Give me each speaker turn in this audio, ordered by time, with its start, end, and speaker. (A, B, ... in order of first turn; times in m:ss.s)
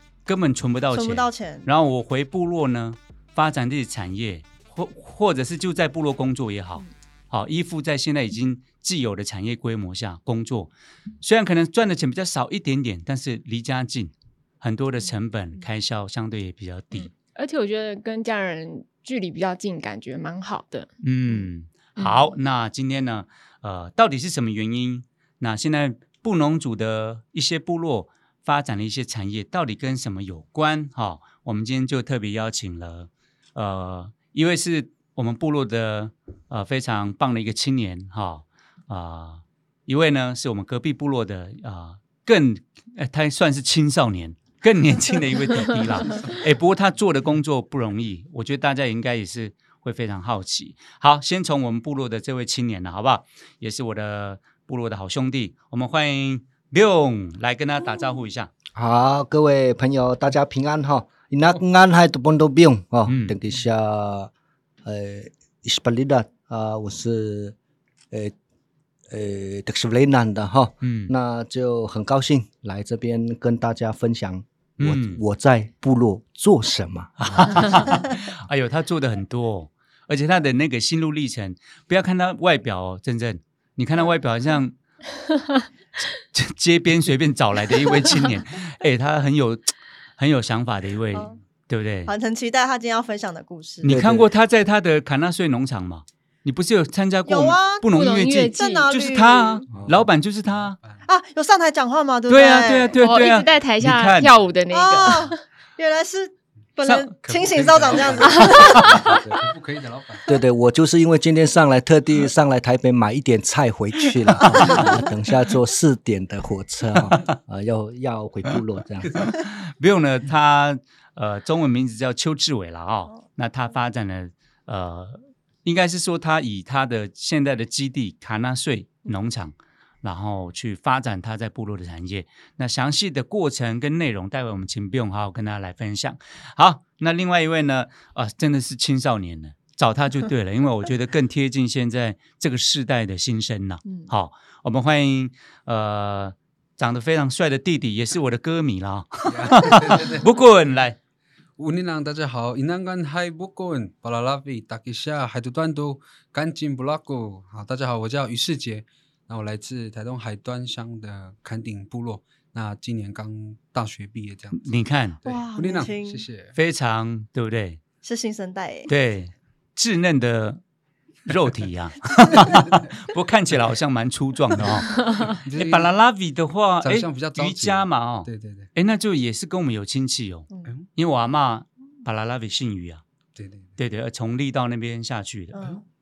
0:00.3-0:17.1 A
0:00.9-0:01.7 B
0:17.3-0:20.9 C
0:21.0-0:58.5 A
0:22.0-0:22.3 C
0:58.8-1:04.3 D
1:03.1-1:03.4 A
1:04.8-1:07.6 D
1:09.1-1:18.0 D
1:10.8-1:11.1 A
1:14.8-1:15.2 A
1:17.2-1:24.8 A
1:26.0-1:32.1 A
1:31.1-1:31.4 B
1:32.1-1:34.0 B
1:33.8-1:40.8 A
1:33.8-1:34.3 D
1:37.3-1:39.6 B
1:37.9-1:38.9 C
1:39.7-1:40.0 E
1:40.5-1:41.0 E
1:41.1-1:43.0 B
1:42.3-1:44.3 A
1:43.0-1:45.4 C
1:44.7-1:49.1 B
1:46.8-1:47.1 A
1:47.2-1:50.3 E
1:48.6-1:48.8 A
1:49.0-1:49.4 D
1:50.3-1:59.1 D
1:54.6-1:54.9 B
1:59.1-2:31.0 A
2:29.3-2:30.2 E
2:31.6-2:46.6 E
2:44.6-2:45.2 A
2:45.3-2:46.3 B
2:46.5-2:47.8 A
2:48.0-2:48.9 B
2:48.9-2:50.6 A
2:51.3-3:03.0 A
2:55.0-2:55.3 C
2:55.0-2:55.9 E
2:56.8-2:58.7 E
3:03.4-3:03.7 E
3:03.8-3:05.7 A
3:05.5-3:05.8 B